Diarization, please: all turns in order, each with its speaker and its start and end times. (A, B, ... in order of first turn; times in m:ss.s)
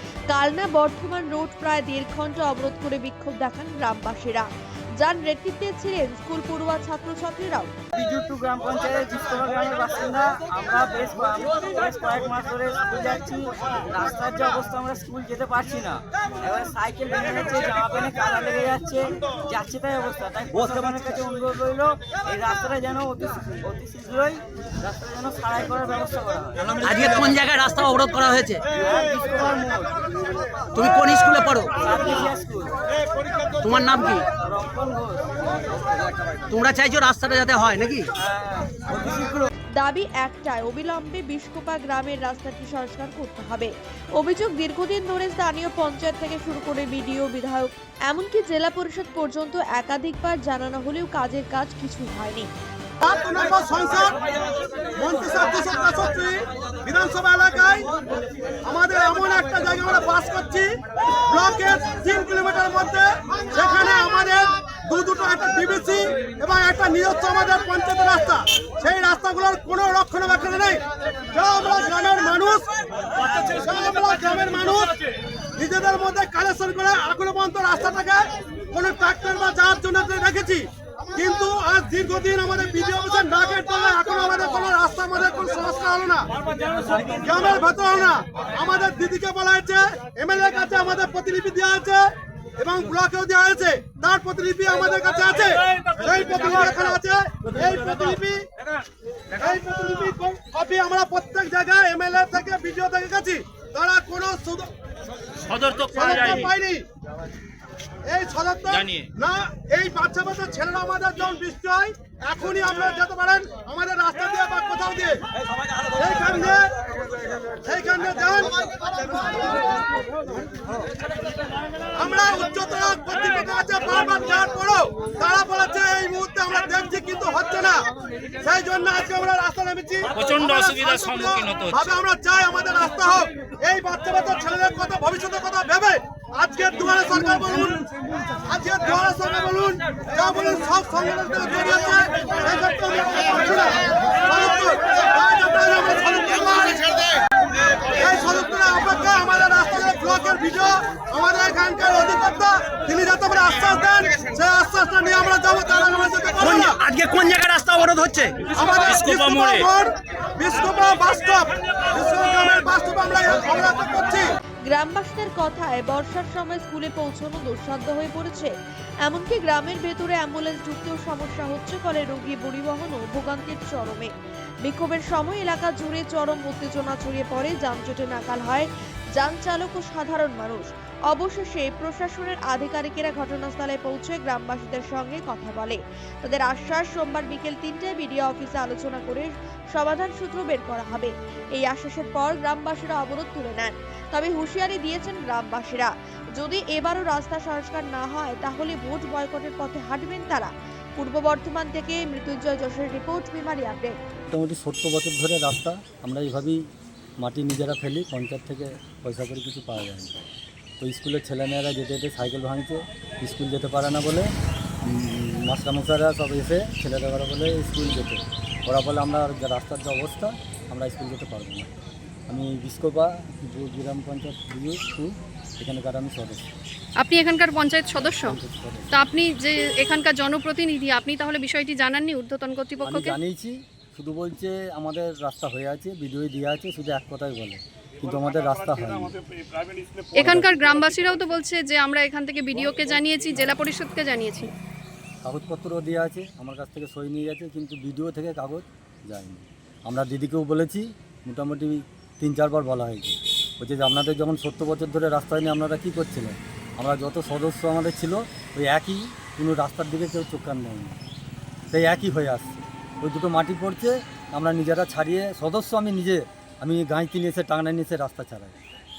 0:00.3-0:04.5 A
0:05.0-0:07.7 A
0:07.9-0:27.2 B
0:26.8-0:28.6 C
0:28.7-0:30.1 B
0:30.7-0:31.8 C
0:31.7-0:32.8 B
0:33.6-0:34.3 C
0:34.3-0:36.3 B
0:36.5-0:38.1 C
0:38.2-0:39.5 B
0:39.8-0:52.5 A
0:53.0-0:54.2 D
0:54.9-0:57.9 D
0:58.6-1:00.8 D
1:01.3-1:15.0 D
1:15.6-1:26.3 D
1:27.0-1:38.5 D
1:39.4-1:44.7 D
1:45.5-1:46.5 E
1:45.9-1:46.8 D
1:48.0-1:55.2 D
1:48.7-1:49.1 E
1:55.9-1:56.7 D
1:57.6-1:59.7 D
2:01.9-2:07.9 D
2:08.4-2:17.8 D
2:10.1-2:11.9 E
2:18.4-2:27.0 D
2:27.9-2:36.8 D
2:36.5-2:38.4 C
2:38.5-2:44.3 D
2:38.7-2:39.7 E
2:44.7-2:48.5 A
2:49.0-2:54.1 A
2:54.6-3:24.0 A
3:24.3-3:26.6 F
3:27.2-3:30.2 F
3:30.8-3:34.3 F
3:34.8-3:41.7 F
3:42.3-3:46.4 F
3:47.0-3:48.4 G
3:48.2-3:49.0 F
3:48.9-3:53.2 G
3:52.8-3:59.2 F
4:00.1-4:04.5 G
4:00.2-4:00.5 F
4:05.2-4:21.0 F
4:21.7-4:28.6 F